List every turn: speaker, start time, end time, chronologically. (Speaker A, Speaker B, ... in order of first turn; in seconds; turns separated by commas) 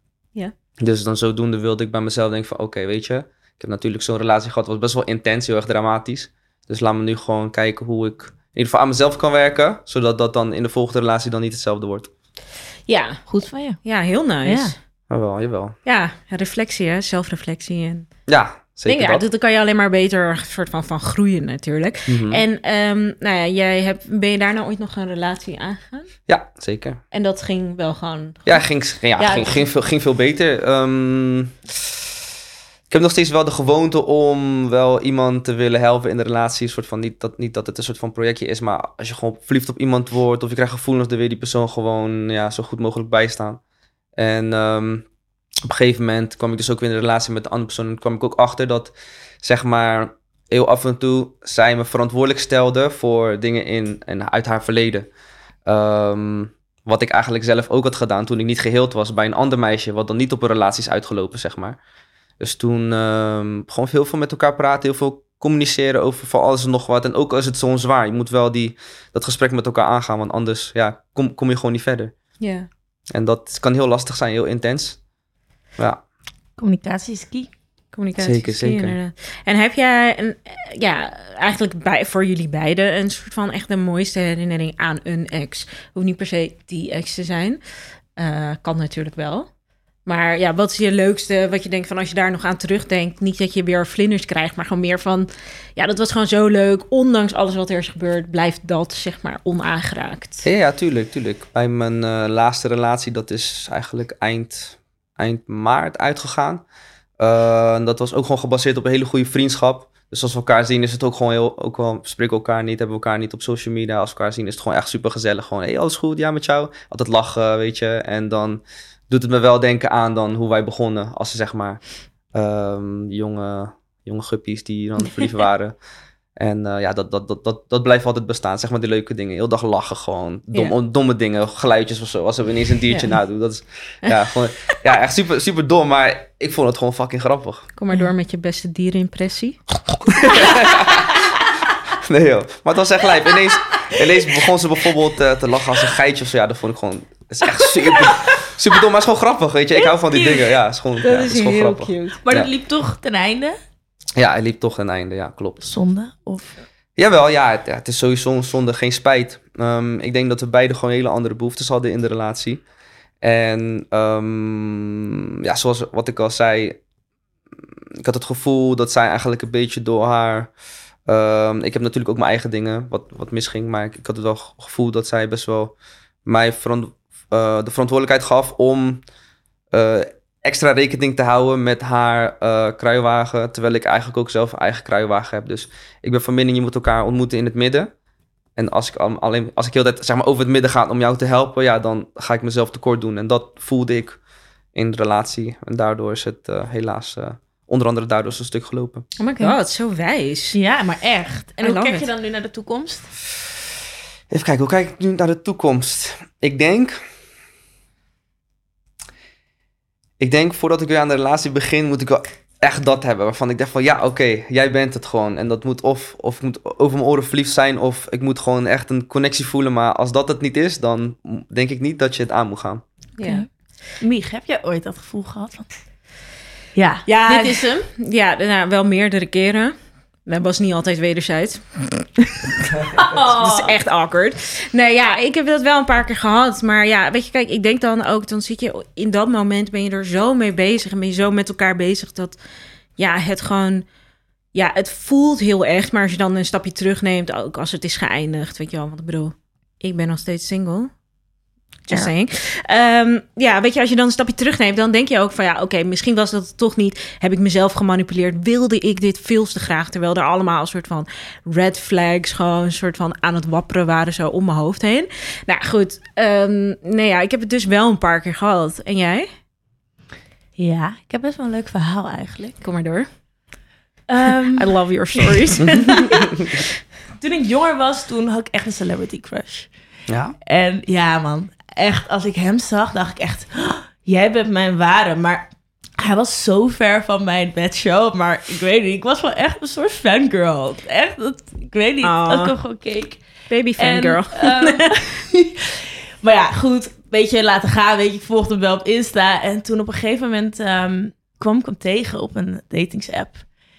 Speaker A: 0.8-12.1, Speaker B: 12.9-13.2, Speaker C: 13.3-13.8, Speaker B: 13.8-14.7, Speaker C: 14.4-14.8, Speaker A: 15.1-15.8, Speaker B: 15.8-18.1, Speaker A: 18.3-19.2, Speaker B: 18.9-26.1, Speaker A: 22.1-22.4, Speaker A: 26.3-27.0, Speaker B: 27.1-28.6, Speaker A: 28.4-31.7, Speaker B: 29.2-29.7, Speaker A: 32.9-43.6, Speaker A: 44.2-45.0, Speaker A: 45.7-55.1, Speaker A: 55.7-61.8, Speaker A: 62.4-72.1, Speaker B: 72.4-72.7, Speaker A: 73.1-75.0, Speaker C: 76.6-77.5, Speaker B: 77.9-87.6, Speaker A: 78.2-79.0, Speaker B: 88.2-89.5, Speaker B: 90.1-100.4, Speaker A: 100.4-106.6, Speaker A: 107.2-121.8, Speaker A: 122.3-125.7, Speaker A: 126.4-137.7, Speaker B: 132.9-133.2, Speaker B: 137.8-139.6, Speaker B: 140.2-140.9, Speaker A: 140.2-141.1, Speaker A: 142.0-152.5, Speaker B: 151.0-152.2, Speaker C: 152.2-153.6, Speaker A: 154.2-155.7, Speaker C: 155.6-156.5, Speaker A: 157.0-162.6, Speaker A: 163.2-166.8, Speaker A: 168.0-170.5, Speaker A: 171.1-175.7, Speaker A: 176.3-179.0, Speaker A: 179.7-187.9, Speaker A: 188.6-194.2, Speaker A: 194.8-199.1, Speaker B: 199.2-200.6, Speaker C: 200.5-203.1, Speaker B: 201.6-202.1, Speaker A: 204.3-207.0, Speaker A: 210.2-222.8, Speaker B: 223.2-223.4, Speaker C: 223.2-223.5, Speaker C: 224.0-225.7, Speaker C: 226.8-227.9, Speaker B: 227.1-229.7, Speaker B: 230.3-232.5, Speaker C: 233.0-233.7, Speaker B: 233.1-242.4, Speaker B: 243.0-243.9, Speaker B: 244.5-250.9, Speaker B: 251.9-269.3, Speaker C: 270.6-272.6, Speaker B: 272.6-273.1, Speaker C: 274.1-276.1, Speaker B: 274.5-276.6, Speaker C: 277.2-279.7, Speaker A: 280.1-280.4, Speaker C: 280.4-285.5, Speaker C: 286.0-293.2, Speaker B: 292.0-292.5, Speaker B: 293.5-294.9, Speaker C: 293.8-303.4